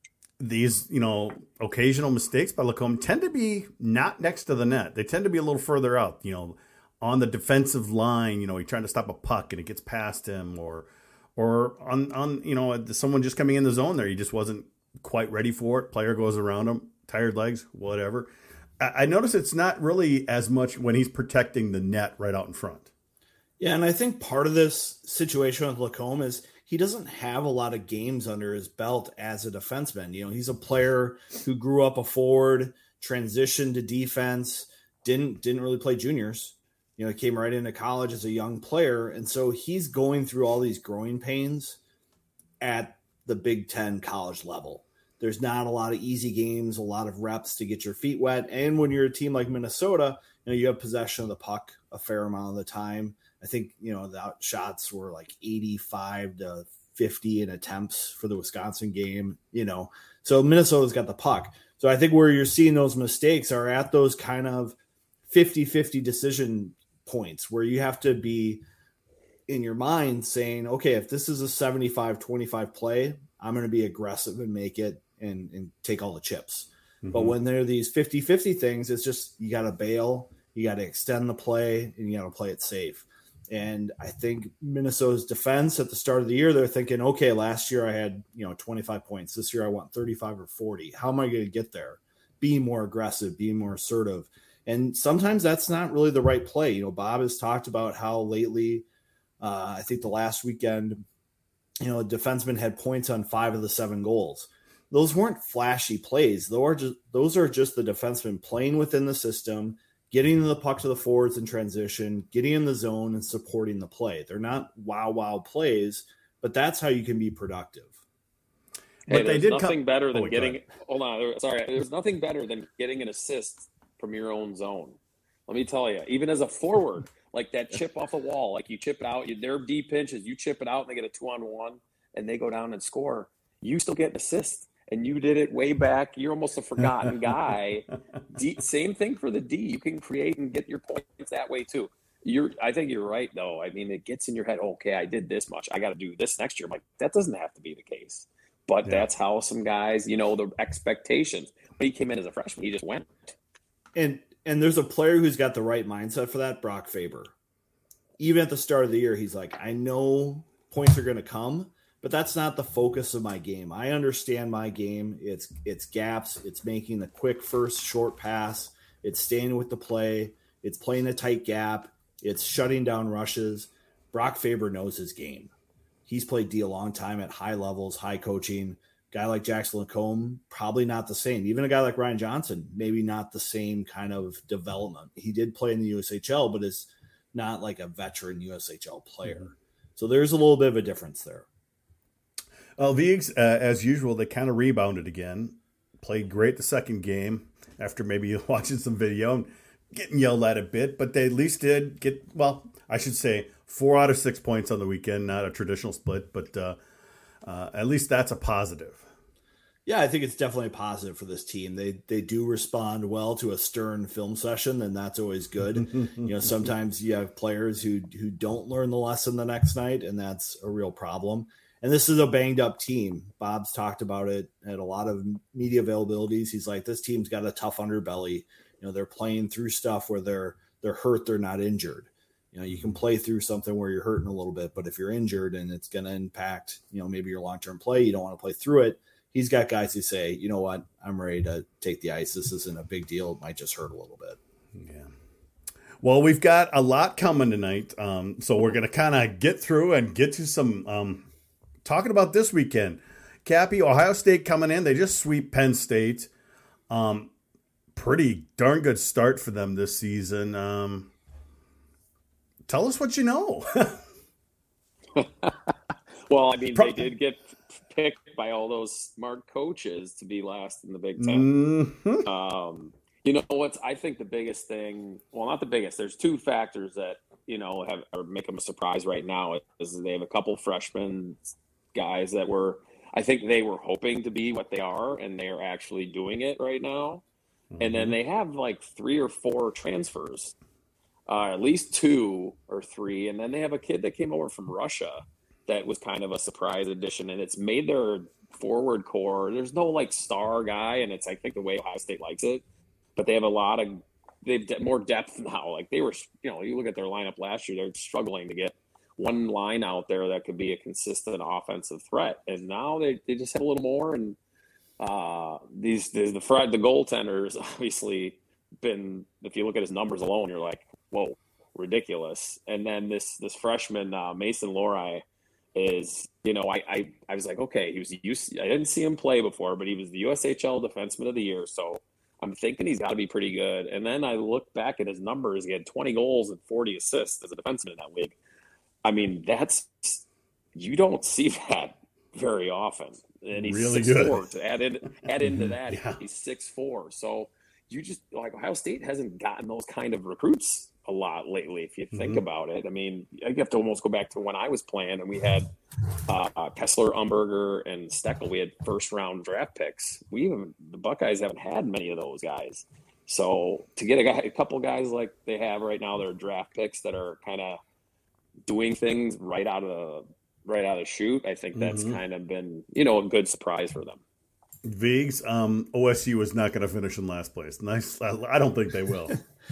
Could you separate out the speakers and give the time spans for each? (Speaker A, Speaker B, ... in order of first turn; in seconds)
Speaker A: 0.4-22.9, 77.0-77.4, 119.1-120.6, 136.8-137.3, 192.8-206.8, 207.4-209.1, 215.8-216.3, 232.7-233.0, 244.8-245.1, 246.0-251.3, 251.8-256.3, 256.9-257.3, 257.9-261.1, 262.7-264.0, 266.8-267.1, 271.2-272.3, 287.7-288.2, 343.5-344.4, 345.4-346.2, 352.1-352.4, 371.8-372.2, 374.8-379.4
Speaker B: 23.6-41.8, 42.6-64.8, 65.3-68.6, 69.5-98.9, 99.4-101.0, 101.8-118.0, 153.9-157.3, 158.2-175.5, 176.1-191.5, 209.9-244.4
Speaker C: 119.1-125.0, 125.5-153.3, 265.2-265.7, 266.3-271.5, 272.2-287.2, 287.8-290.6, 291.3-302.6, 303.2-314.4, 315.0-325.2, 325.8-338.4, 339.0-340.2, 340.8-355.7, 356.3-367.8, 368.6-374.2